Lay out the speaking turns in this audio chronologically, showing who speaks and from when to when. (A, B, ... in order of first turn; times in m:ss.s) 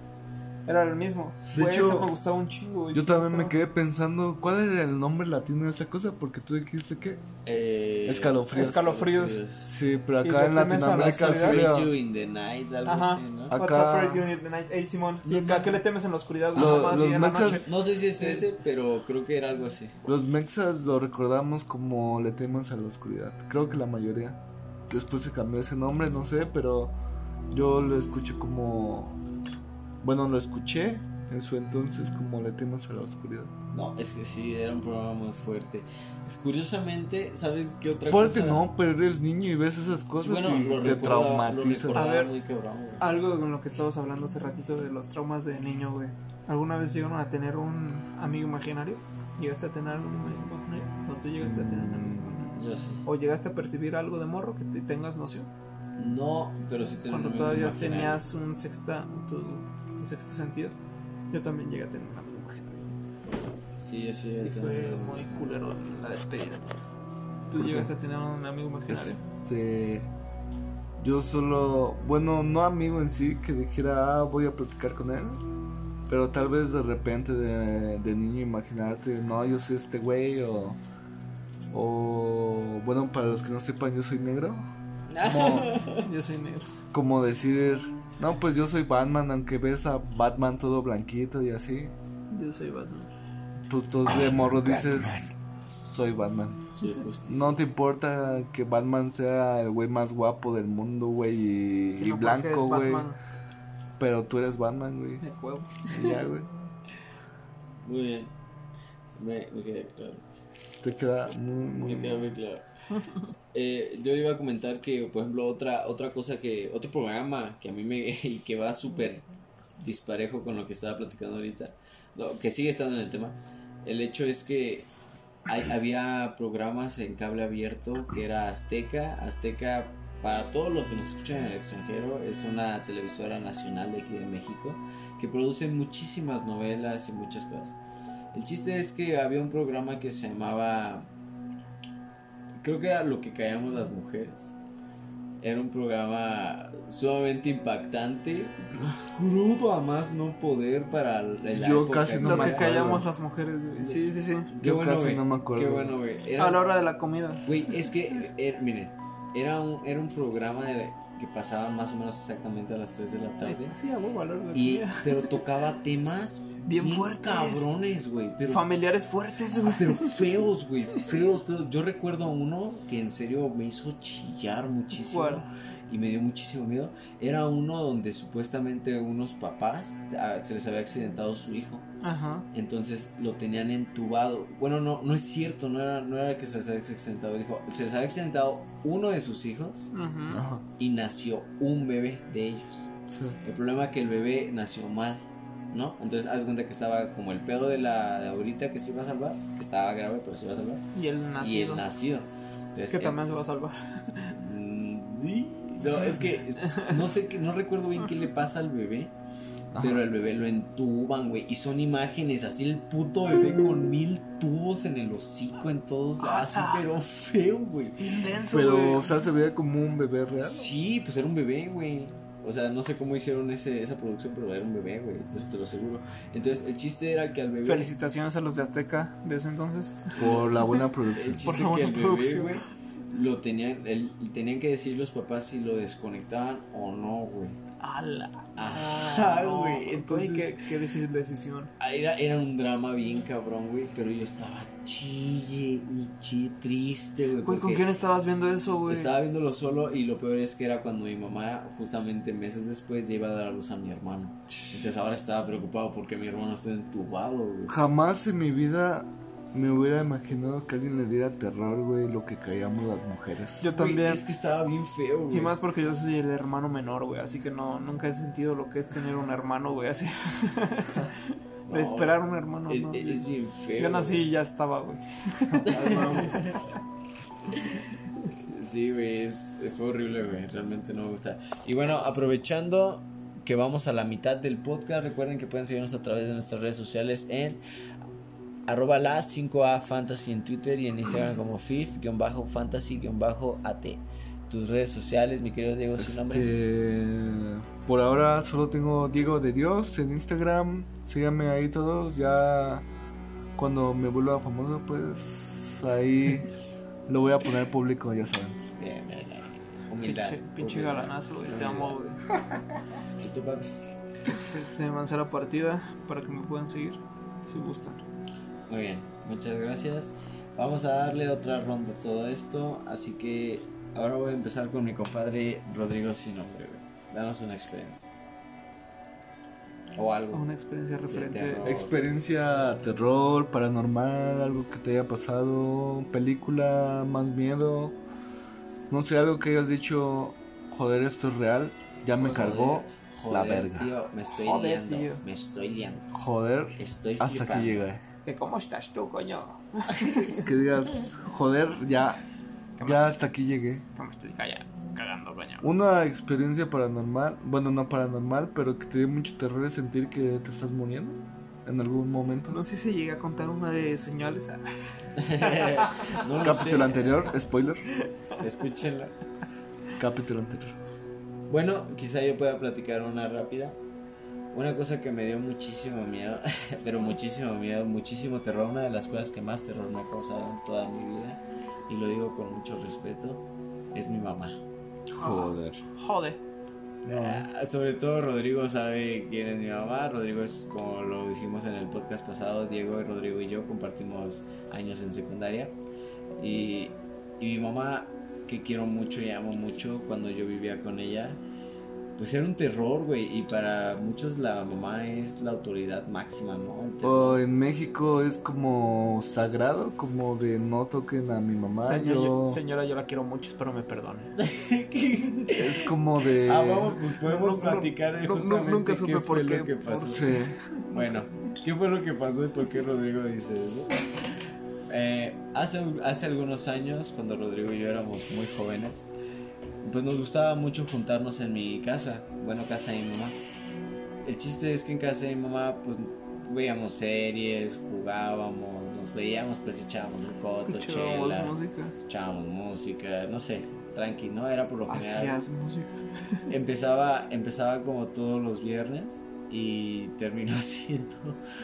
0:00.6-0:03.5 A
0:01.5-0:02.1 B
0:02.9-0:07.2 B
0:07.4-0:09.7 C
0:08.0-0:08.8 B
0:08.5-0:09.4 A
0:09.6-0:11.9 B
0:10.2-0:11.7 A
0:10.9-0:13.6 C
0:12.8-0:18.4 A
0:13.5-0:14.3 B
0:15.2-0:15.8 C
0:16.5-0:17.6 B
0:16.6-0:20.0 C
0:20.0-0:26.9 B
0:27.5-0:29.2 B
0:30.0-0:33.5 B
0:33.7-0:38.6 C
0:38.0-0:42.0 B
0:40.2-0:43.0 C
0:41.9-0:42.3 A
0:43.0-0:55.5 A
0:51.4-0:52.4 B
0:52.5-0:53.0 C
0:56.0-0:58.2 C
0:57.1-1:00.8 A
1:01.3-1:02.9 A
1:03.8-1:05.5 C
1:04.4-1:06.7 A
1:07.5-1:09.2 A
1:07.5-1:07.9 B
1:08.9-1:10.1 B
1:11.0-1:15.4 B
1:16.1-1:20.8 B
1:21.7-1:24.7 B
1:25.1-1:26.0 C
1:25.2-1:25.7 B
1:25.9-1:26.7 A
1:26.9-1:31.9 B
1:32.3-1:33.1 A
1:33.7-1:36.6 B
1:36.7-1:37.6 C
1:37.3-1:43.1 B
1:41.9-1:43.2 A
1:44.0-1:45.2 B
1:45.2-1:46.2 A
1:45.9-1:46.5 B
1:47.8-1:48.3 C
1:49.2-1:50.2 C
1:50.8-1:52.3 B
1:51.8-1:52.6 C
1:53.5-1:59.2 C
1:59.8-2:04.9 C
2:05.5-2:17.8 C
2:18.3-2:21.1 C
2:22.6-2:24.6 C
2:25.4-2:33.0 C
2:31.5-2:33.1 B
2:32.2-2:34.5 A
2:33.8-2:36.7 C
2:34.6-2:36.0 B
2:36.4-2:37.9 A
2:37.4-2:43.8 C
2:43.4-2:45.4 A
2:44.5-2:48.7 C
2:46.6-2:47.7 A
2:48.5-2:50.4 A
2:49.5-3:01.9 C
2:55.0-2:55.4 A
3:02.0-3:02.4 A
3:02.5-3:09.9 C
3:09.9-3:10.4 A
3:10.3-3:10.6 B
3:10.8-3:12.9 C
3:13.1-3:13.4 B
3:13.4-3:20.8 C
3:20.9-3:21.8 A
3:21.4-3:23.2 C
3:22.9-3:24.4 A
3:24.4-3:29.1 C
3:26.6-3:27.0 A
3:29.7-3:30.0 B
3:29.8-3:38.3 C
3:36.2-3:36.8 A
3:38.0-3:39.1 A
3:38.5-3:40.7 B
3:40.4-3:47.9 C
3:47.6-3:50.8 A
3:50.2-3:50.5 C
3:50.2-3:51.5 B
3:51.1-3:57.6 C
3:51.4-3:52.6 A
3:57.8-4:01.7 A
3:58.6-4:00.6 C
4:01.8-4:07.8 C
4:07.4-4:09.1 A
4:08.9-4:17.8 C
4:17.7-4:23.8 B
4:23.6-4:24.2 A
4:23.7-4:25.5 C
4:25.3-4:36.6 A
4:31.7-4:34.3 C
4:35.6-4:36.4 B
4:35.6-4:36.6 C
4:38.4-4:47.6 C
4:48.7-4:56.5 C
4:56.0-5:02.8 B
5:03.6-5:06.5 B
5:07.1-5:08.7 B
5:08.8-5:12.0 C
5:10.0-5:12.2 A
5:13.2-5:13.7 C
5:14.3-5:18.0 A
5:18.7-5:28.1 C
5:30.0-5:30.4 C
5:30.3-5:31.7 A
5:31.1-5:31.9 C
5:31.6-5:38.0 B
5:38.9-5:43.9 B
5:42.2-5:46.1 C
5:44.3-5:45.2 A
5:46.1-5:48.0 B
5:46.8-5:47.8 C
5:48.2-5:50.5 A
5:50.4-5:52.2 B
5:52.8-5:53.2 A
5:52.8-5:53.8 B
5:53.9-5:55.7 A
5:55.6-6:02.6 B
6:02.5-6:04.6 A
6:05.1-6:07.3 C
6:05.4-6:07.0 A
6:06.4-6:07.8 B
6:08.4-6:09.1 C
6:10.0-6:10.8 B
6:11.5-6:13.8 C
6:14.5-6:24.6 C
6:25.1-6:25.8 B
6:25.2-6:26.4 A
6:27.0-6:27.5 B
6:27.1-6:35.7 C
6:36.4-6:41.4 C
6:42.2-6:47.4 C
6:47.0-6:52.6 B
6:51.8-6:54.3 A
6:54.4-6:55.9 C
6:55.5-6:57.0 B
6:56.4-7:00.2 C
6:57.2-7:00.9 A
7:00.1-7:00.6 B
7:00.9-7:03.9 C
7:04.9-7:09.1 C
7:09.8-7:13.4 C
7:14.2-7:25.4 C
7:20.6-7:21.9 A
7:24.9-7:26.4 A
7:26.5-7:31.4 C